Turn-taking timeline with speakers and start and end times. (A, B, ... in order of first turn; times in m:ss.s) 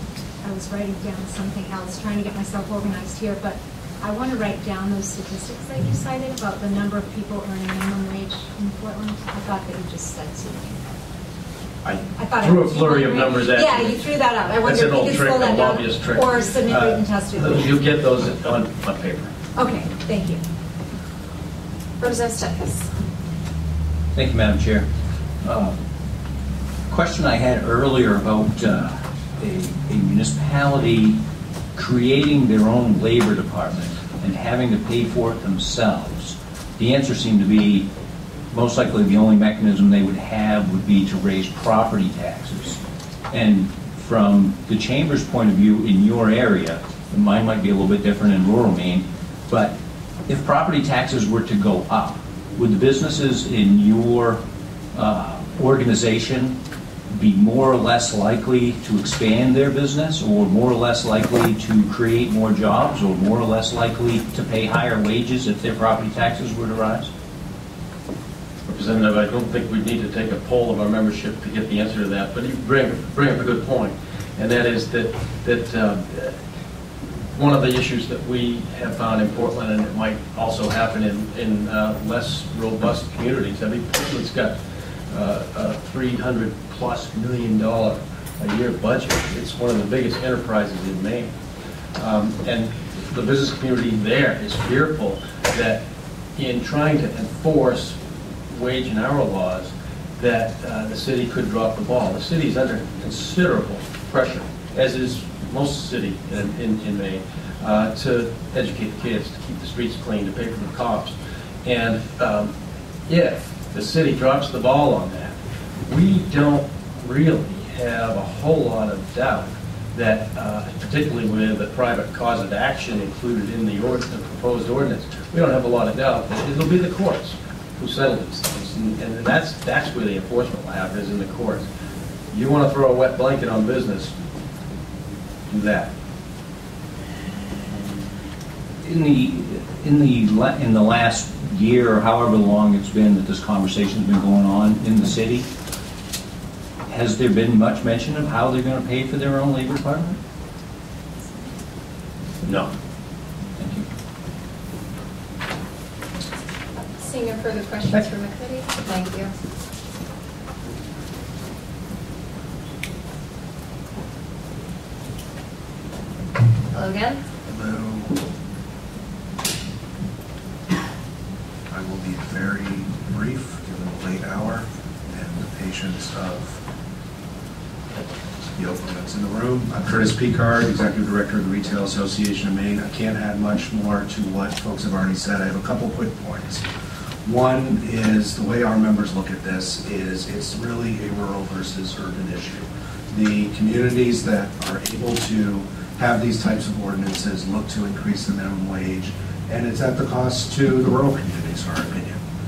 0:00.4-0:10.8 A
0:11.8-0:19.3 B
0:12.1-0:17.8 A
0:19.6-0:20.4 A
0:22.0-0:22.9 C
0:24.1-0:24.8 D
0:25.4-0:25.7 D
0:26.9-0:31.2 D
0:31.7-0:37.9 D
0:38.5-0:42.8 D
0:43.3-0:49.7 D
0:50.3-0:54.4 D
0:54.9-0:56.6 D
0:57.1-1:07.1 D
1:08.7-1:16.4 B
1:17.3-1:24.6 B
1:25.1-1:31.3 B
1:32.0-1:35.8 B
1:36.4-1:52.5 B
1:53.1-2:11.7 B
2:12.3-2:14.1 B
2:15.5-2:15.9 B
2:18.8-2:25.4 D
2:26.9-2:30.2 D
2:33.6-2:33.8 D
2:37.0-2:39.3 C
2:46.7-2:47.2 C
2:47.5-2:48.1 E
2:51.7-2:56.6 E
2:58.5-3:06.6 E
3:07.2-3:22.2 E